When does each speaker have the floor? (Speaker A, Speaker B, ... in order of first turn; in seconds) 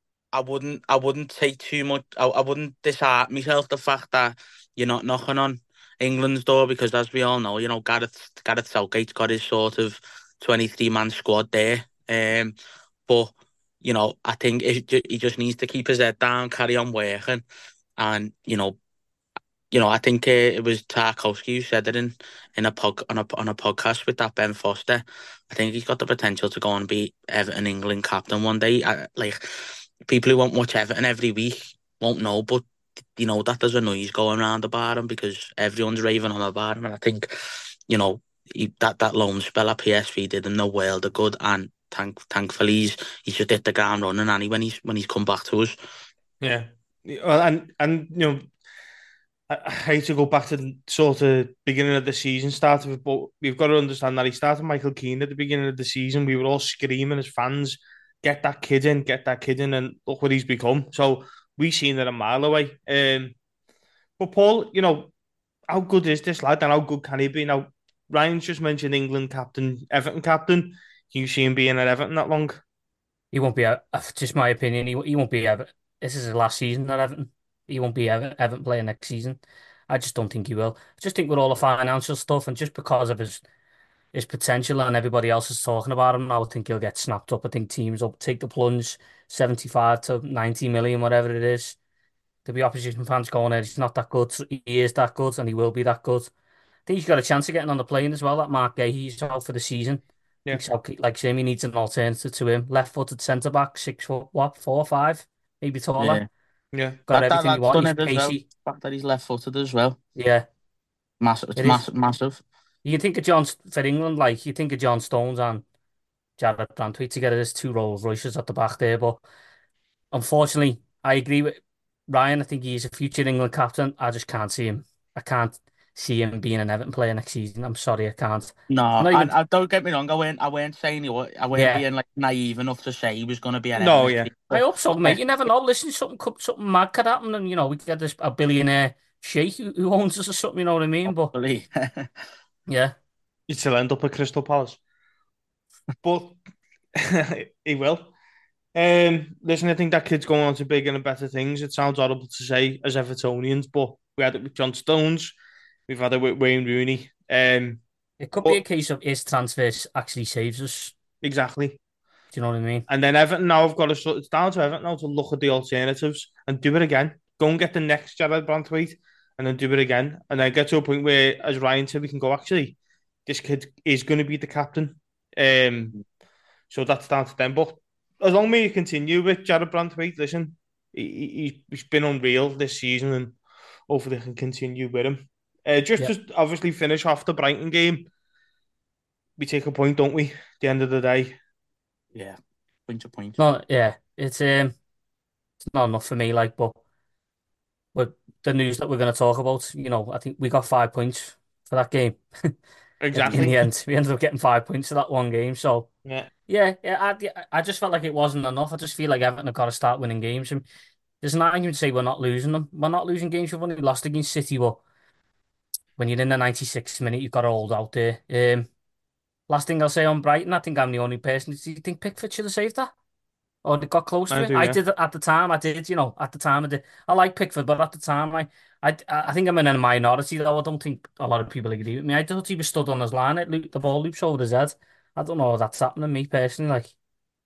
Speaker A: 0.3-12.6, 13.1-17.4, 18.0-18.8, 19.7-37.4, 37.9-45.8, 106.0-106.3, 107.1-110.0, 111.2-112.4, 128.7-135.2, 141.1-142.1, 192.1-193.4
Speaker B: 46.4-48.5, 49.5-63.4, 64.2-65.1, 65.7-72.6, 106.7-107.0, 133.8-134.3, 143.5-144.8, 146.0-146.4, 147.0-148.1, 148.8-155.4, 155.9-157.8, 161.2-161.8, 162.9-175.9, 176.7-183.4, 183.9-188.1, 189.4-191.4, 203.0-203.7, 206.1-206.3, 224.3-224.8
Speaker C: 73.3-83.4, 84.1-91.8, 92.5-96.3, 96.9-106.2, 107.1-108.5, 110.2-110.5, 111.6-111.8, 112.8-115.6, 116.4-119.2, 120.1-129.3, 131.6-131.8, 134.5-141.3, 142.7-142.9, 158.2-160.9, 162.3-162.9, 193.4-194.7, 195.6-196.8, 197.9-202.6, 203.1-205.9, 206.5-210.7, 211.2-214.8, 216.0-218.7, 219.5-222.9, 223.6-236.9